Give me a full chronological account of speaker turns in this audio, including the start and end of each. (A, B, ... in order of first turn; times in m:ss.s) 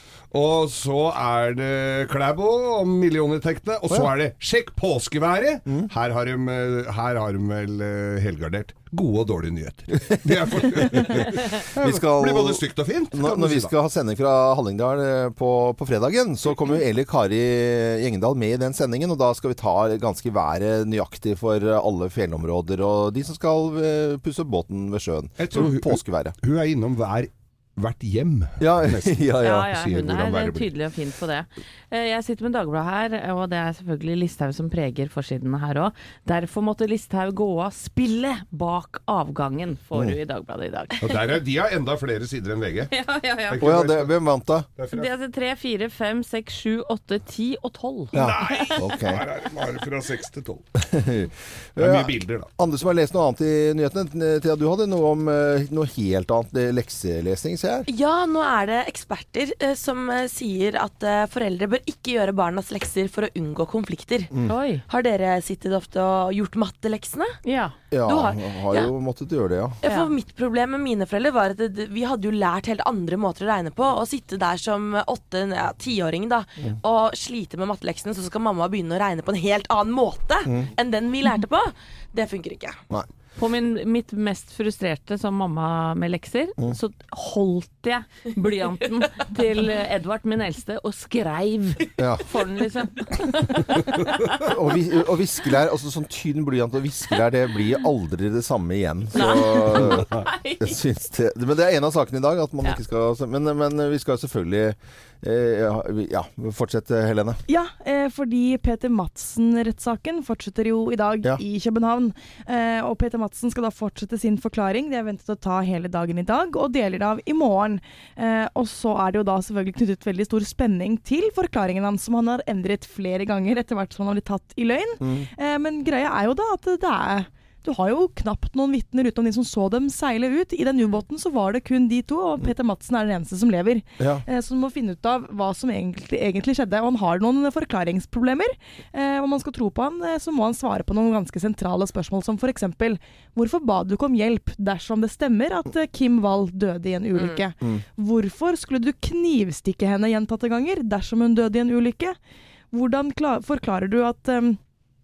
0:00.3-0:13.7 A
0:10.5-0:26.4 B
0:25.4-0:30.7 A
0:28.6-0:29.7 B
0:29.4-0:41.1 C
0:41.0-0:42.9 A
0:42.9-0:43.6 C
0:43.5-0:44.1 A
0:43.6-0:44.7 B
0:44.8-0:45.1 A
0:44.9-0:48.7 C
0:48.1-0:49.2 B
0:48.1-0:50.6 A
0:50.8-0:57.9 B
0:51.8-0:52.5 A
0:57.9-1:04.3 D
1:04.5-1:04.8 C
1:04.9-1:07.4 D
1:07.4-1:07.7 C
1:07.9-1:09.8 B
1:08.0-1:08.9 D
1:09.8-1:22.8 D
1:09.8-1:10.1 C
1:23.4-1:34.0 C
1:32.0-1:32.2 B
1:34.4-1:40.1 B
1:39.1-1:40.8 C
1:39.8-1:40.2 A
1:40.6-1:47.4 B
1:47.5-2:32.2 E
2:05.0-2:05.3 B
2:14.0-2:14.2 B
2:32.7-2:34.6 E